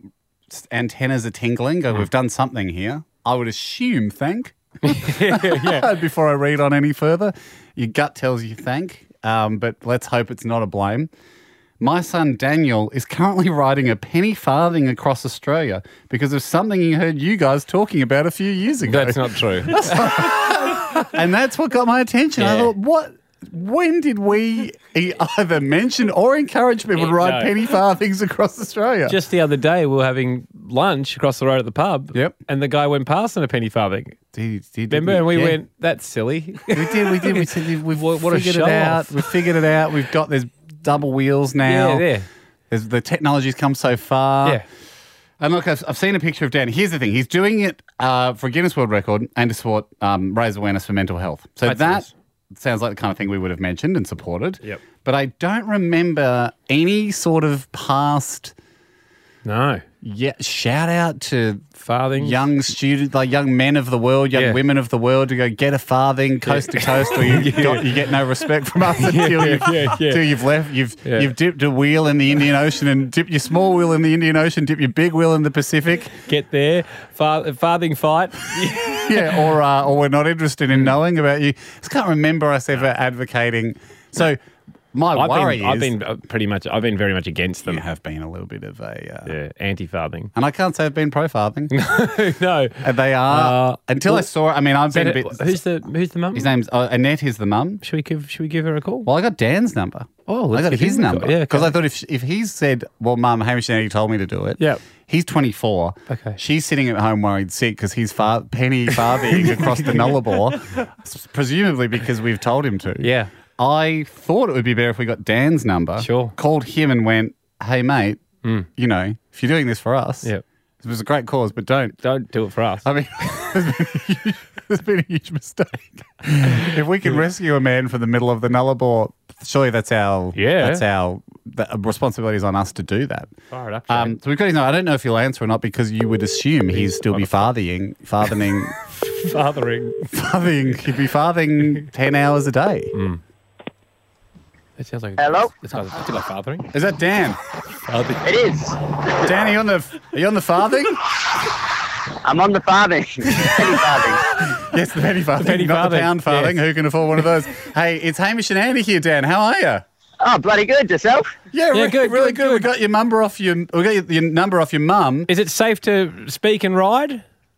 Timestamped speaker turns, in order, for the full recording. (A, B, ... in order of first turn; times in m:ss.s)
0:00.5-0:11.1 A
0:04.8-0:05.9 B
0:11.8-0:29.2 A
0:18.9-0:20.1 B
0:22.4-0:22.7 B
0:27.0-0:27.5 B
0:29.1-0:34.2 B
0:34.3-0:35.6 A
0:34.9-0:39.4 B
0:36.7-0:42.1 A
0:41.6-0:42.3 B
0:42.7-0:44.6 A
0:45.4-0:58.6 A
0:51.6-0:52.1 B
0:59.4-0:59.8 B
1:00.0-1:16.2 A
1:01.8-1:02.4 B
1:04.4-1:04.6 B
1:06.5-1:07.9 B
1:09.0-1:10.3 B
1:11.0-1:11.3 B
1:16.2-1:19.4 B
1:19.0-1:24.4 A
1:24.9-1:25.9 A
1:25.1-1:27.8 B
1:27.7-1:29.3 A
1:29.3-1:30.3 B
1:30.3-1:31.8 A
1:31.7-1:34.3 B
1:32.8-1:35.6 A
1:34.9-1:36.5 B
1:36.3-1:37.8 A
1:37.8-1:39.1 B
1:39.0-1:58.2 A
1:40.3-1:41.8 B
1:46.1-1:46.4 B
1:49.3-1:50.5 B
1:53.0-1:53.3 B
1:56.0-1:56.4 B
1:58.8-2:00.3 A
2:00.8-2:02.0 A
2:02.0-2:02.9 B
2:02.8-2:13.3 A
2:06.6-2:07.2 B
2:10.4-2:10.8 B
2:13.5-2:14.2 B
2:13.9-2:18.8 A
2:16.7-2:17.5 B
2:19.0-2:20.1 B
2:20.1-2:22.9 A
2:22.9-2:23.2 B
2:24.8-2:26.7 B
2:25.2-2:25.5 C
2:26.7-2:27.4 A
2:27.9-2:28.3 B
2:28.2-2:29.3 C
2:29.2-2:31.0 A
2:32.2-2:34.2 C
2:34.6-2:39.8 A
2:35.4-2:36.6 B
2:40.2-2:41.3 C
2:41.5-2:45.3 A
2:41.7-2:42.7 B
2:45.3-2:47.2 B